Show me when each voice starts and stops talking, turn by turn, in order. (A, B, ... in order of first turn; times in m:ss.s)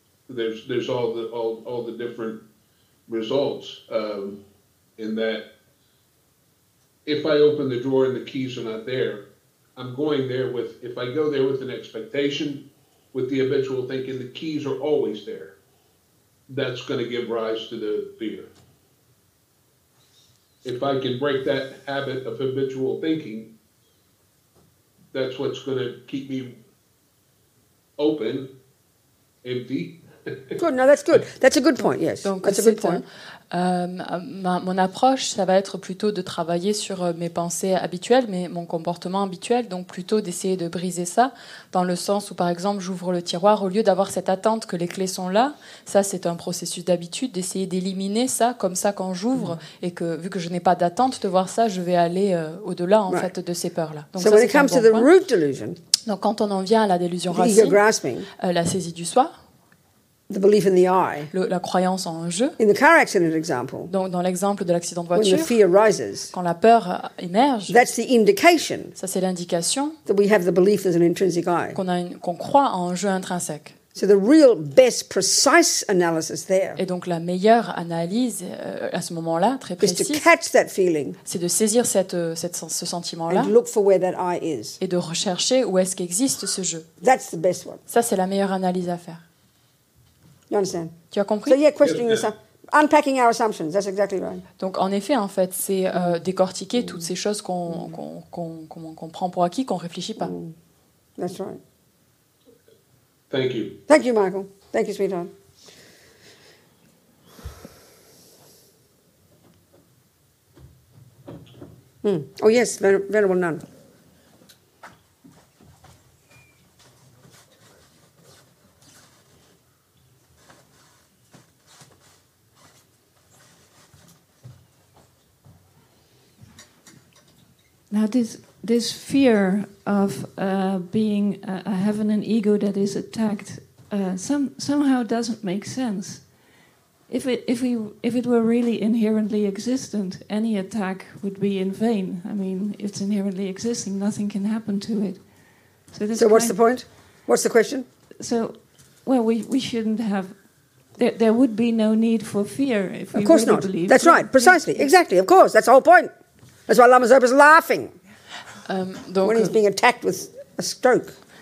0:00.3-0:02.4 A
0:03.1-0:04.4 A
0:05.0-0:05.5 A
0:07.1-0:15.6 A
0:16.5-0:18.5 A
0:20.6-0:23.5 A
0:25.1-0:26.6 A
0:28.0-0:28.5 A
0:29.4-0:30.6 A
0:30.6-0:33.0 B
0:32.2-0:55.1 C
0:54.2-0:55.8 B
0:56.1-0:57.8 C
0:57.3-0:58.3 B
0:58.4-0:59.3 C
1:00.3-1:01.3 B
1:01.3-1:02.6 C
1:02.6-1:03.9 B
1:03.9-1:05.6 C
1:05.2-1:06.3 B
1:06.3-1:07.9 C
1:07.7-1:08.9 B
1:09.0-1:10.0 C
1:10.1-1:11.8 B
1:11.7-1:13.8 C
1:14.0-1:16.8 B
1:16.8-1:20.3 C
1:19.8-1:21.2 B
1:21.2-1:23.5 C
1:23.3-1:24.8 B
1:24.8-1:26.9 C
1:27.0-1:27.8 B
1:27.9-1:29.2 C
1:30.5-1:30.9 B
1:31.1-1:31.6 C
1:31.5-1:34.4 B
1:31.8-1:32.3 A
1:34.6-1:40.3 C
1:37.7-1:38.0 B
1:40.2-1:40.5 B
1:41.2-1:41.6 B
1:43.3-1:43.8 A
1:43.9-1:45.3 B
1:52.0-1:53.6 B
2:07.9-2:16.3 D
2:17.1-2:25.3 D
2:25.9-2:26.6 D
2:26.2-2:27.9 B
2:28.2-2:30.4 D
2:30.9-2:34.8 D
2:33.2-2:36.1 B
2:36.7-2:37.9 B
2:38.7-2:39.5 C
2:39.2-2:41.2 B